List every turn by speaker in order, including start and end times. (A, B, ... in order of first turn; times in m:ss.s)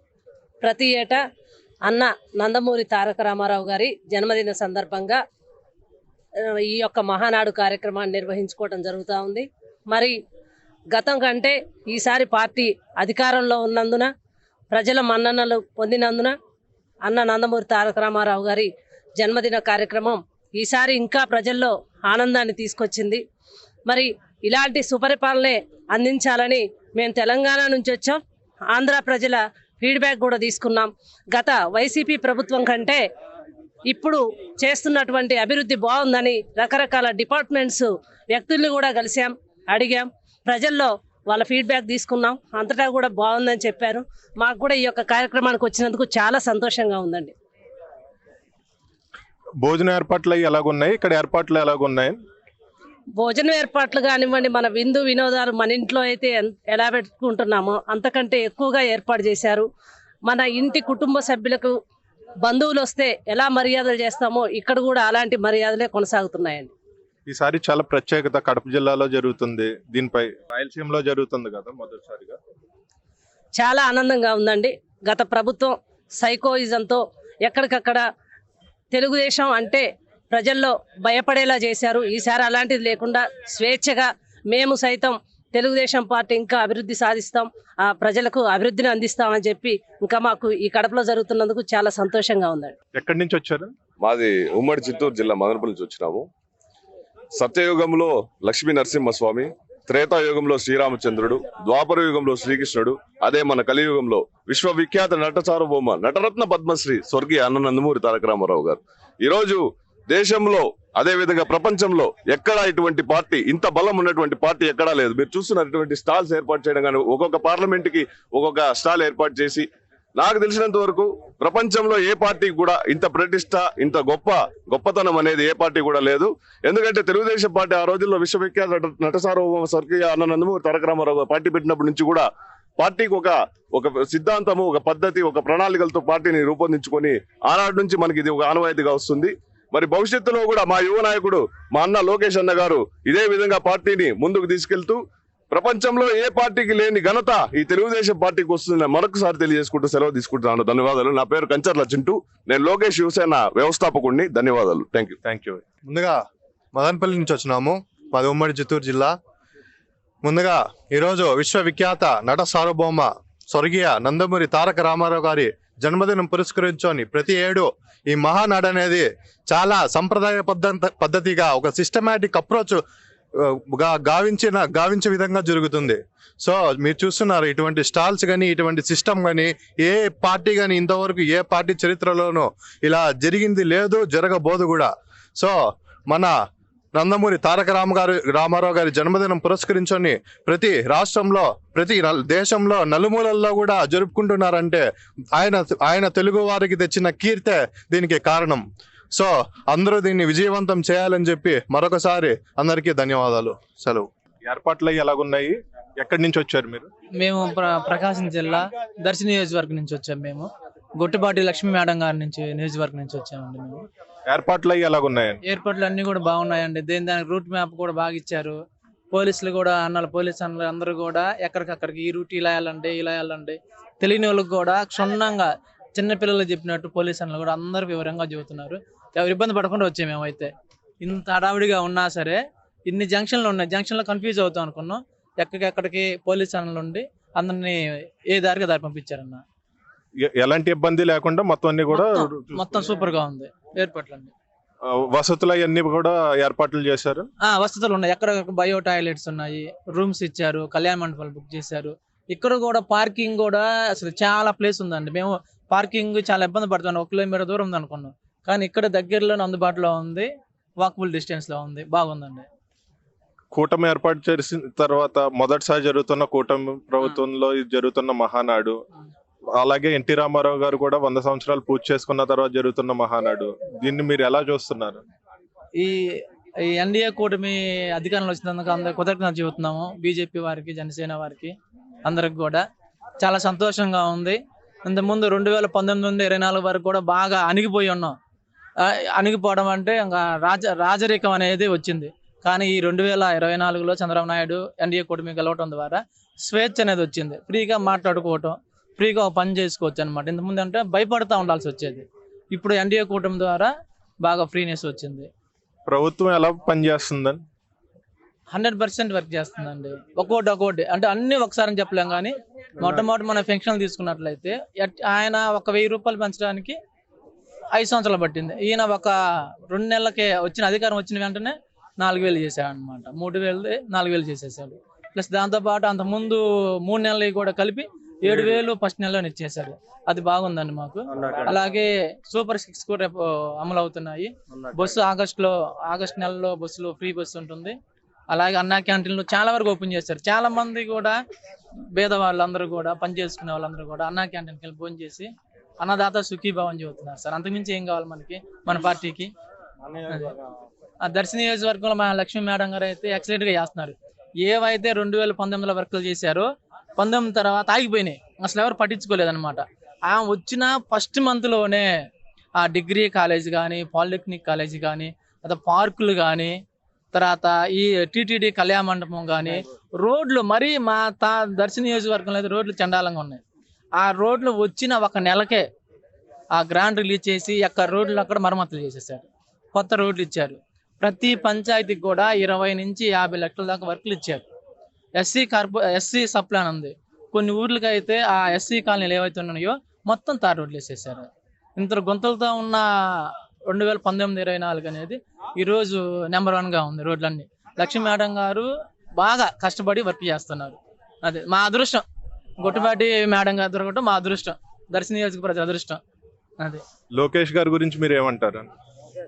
0:00.6-0:01.2 A
0:01.8-0:05.2 A
0:06.4-0:10.2 A
0:10.9-0:14.1 A
0:14.7-0:16.3 A
0:17.0-0:23.2 A
0:23.9-0:28.2 A
0:28.7-0:33.0 A
0:33.9-0:47.3 A
0:49.6-0:52.2 B
0:53.2-0:59.6 A
1:00.2-1:01.8 A
1:02.4-1:06.7 A
1:07.3-1:12.4 B
1:13.6-1:18.0 A
1:18.9-1:32.7 A
1:32.9-1:33.7 B
1:34.0-1:36.2 C
1:37.3-2:12.3 C
2:12.8-2:35.2 C
2:35.2-2:36.0 B
2:36.7-2:39.1 D
2:40.2-2:52.8 D
2:53.7-3:05.5 D
3:06.9-3:14.8 D
3:15.4-3:18.6 D
3:19.1-3:24.0 D
3:24.4-3:26.9 B
3:27.2-3:33.8 E
3:34.3-3:35.4 B
3:35.4-3:38.6 E
3:39.1-3:59.4 E
4:00.2-4:02.2 B
4:01.9-4:04.3 E
4:04.8-4:07.3 B
4:07.4-4:20.3 E
4:20.8-4:22.4 E
4:23.5-4:28.8 B
4:27.0-4:27.2 E
4:29.6-4:35.0 B
4:35.8-4:41.5 E
4:42.0-4:42.6 E
4:43.2-4:48.2 E
4:48.8-5:03.7 E
5:04.2-5:05.3 E
5:05.9-5:07.4 B
5:08.5-5:16.8 E
5:17.7-5:19.1 E
5:19.7-5:37.8 E
5:38.3-5:41.2 E
5:41.9-5:49.3 E
5:50.1-5:50.3 E
5:51.0-6:01.9 E
6:02.6-6:06.6 E
6:07.1-6:13.4 E
6:14.0-6:15.6 E
6:16.5-6:24.4 E
6:25.2-6:42.0 E
6:42.6-6:46.0 E
6:47.2-6:48.7 B